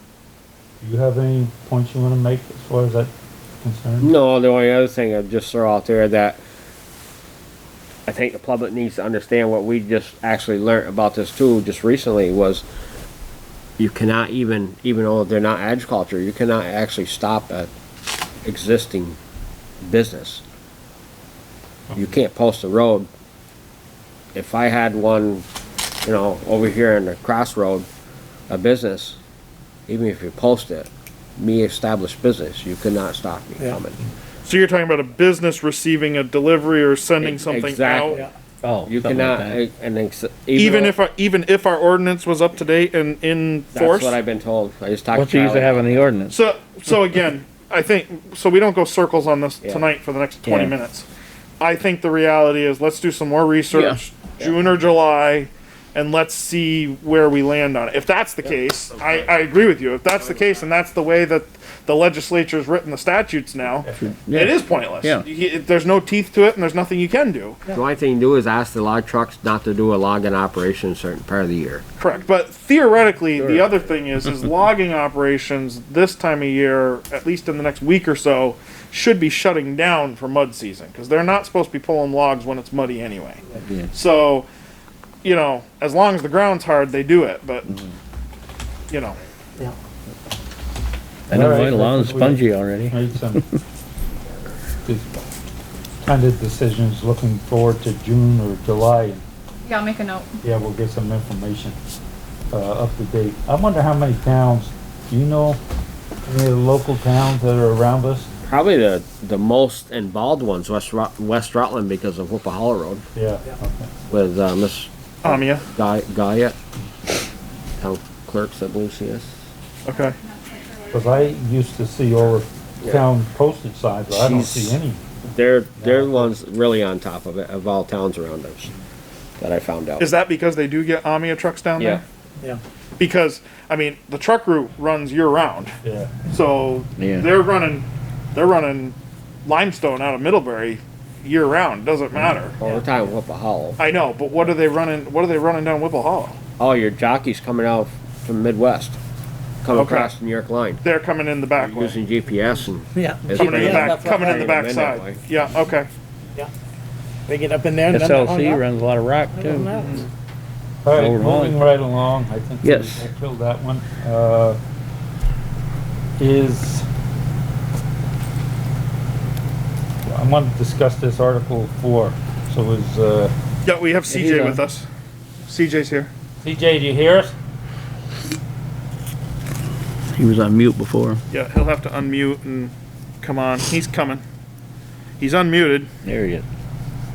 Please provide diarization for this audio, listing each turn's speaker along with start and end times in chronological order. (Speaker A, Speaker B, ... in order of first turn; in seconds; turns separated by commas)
Speaker A: 0.8-4.1, Speaker B: 4.0-6.4, Speaker B: 8.1-12.6, Speaker B: 13.8-17.7, Speaker B: 18.4-19.2, Speaker B: 19.8-20.4, Speaker B: 21.9-23.1, Speaker B: 24.3-25.4, Speaker B: 26.0-27.9, Speaker B: 28.5-29.2, Speaker B: 29.9-34.0, Speaker C: 34.4-38.2, Speaker B: 37.2-38.2, Speaker D: 38.6-39.6, Speaker B: 38.9-40.9, Speaker C: 40.6-44.1, Speaker B: 43.7-46.1, Speaker D: 45.1-46.4, Speaker C: 46.3-51.0, Speaker D: 50.5-50.7, Speaker C: 51.6-67.6, Speaker D: 53.7-54.0, Speaker D: 63.9-65.2, Speaker B: 67.7-71.8, Speaker C: 72.0-84.5, Speaker D: 73.4-73.7, Speaker D: 83.6-83.9, Speaker C: 85.2-87.7, Speaker C: 88.9-89.2, Speaker D: 91.3-93.4, Speaker A: 91.3-93.4, Speaker A: 94.8-95.3, Speaker A: 96.0-99.2, Speaker E: 99.6-100.4, Speaker A: 100.4-101.8, Speaker A: 102.5-105.6, Speaker A: 106.2-108.3, Speaker B: 108.4-113.0, Speaker A: 113.1-113.9, Speaker B: 114.1-114.9, Speaker C: 115.2-115.7, Speaker B: 115.7-116.6, Speaker B: 117.8-119.3, Speaker C: 119.8-120.2, Speaker E: 119.9-121.3, Speaker A: 120.9-125.0, Speaker B: 124.1-124.8, Speaker B: 125.3-128.7, Speaker A: 125.8-126.3, Speaker B: 129.4-130.1, Speaker C: 130.0-132.0, Speaker B: 131.8-132.0, Speaker C: 133.0-135.7, Speaker A: 135.8-136.1, Speaker C: 136.3-138.9, Speaker D: 137.0-137.3, Speaker C: 139.4-142.6, Speaker B: 142.6-143.8, Speaker C: 143.8-146.4, Speaker B: 146.6-149.0, Speaker B: 149.6-150.8, Speaker C: 149.7-150.1, Speaker C: 150.8-152.0, Speaker B: 151.6-155.2, Speaker F: 152.9-154.6, Speaker C: 153.3-155.9, Speaker F: 157.3-158.6, Speaker D: 157.9-159.8, Speaker F: 159.3-160.1, Speaker C: 159.7-160.1, Speaker A: 160.8-164.6, Speaker D: 160.9-161.6, Speaker D: 162.6-163.0, Speaker A: 166.2-166.8, Speaker A: 170.0-173.3, Speaker C: 173.6-174.9, Speaker D: 174.1-174.6, Speaker C: 175.4-176.1, Speaker A: 176.4-177.3, Speaker D: 180.1-181.2, Speaker C: 181.3-184.2, Speaker C: 185.2-185.9, Speaker D: 186.0-186.4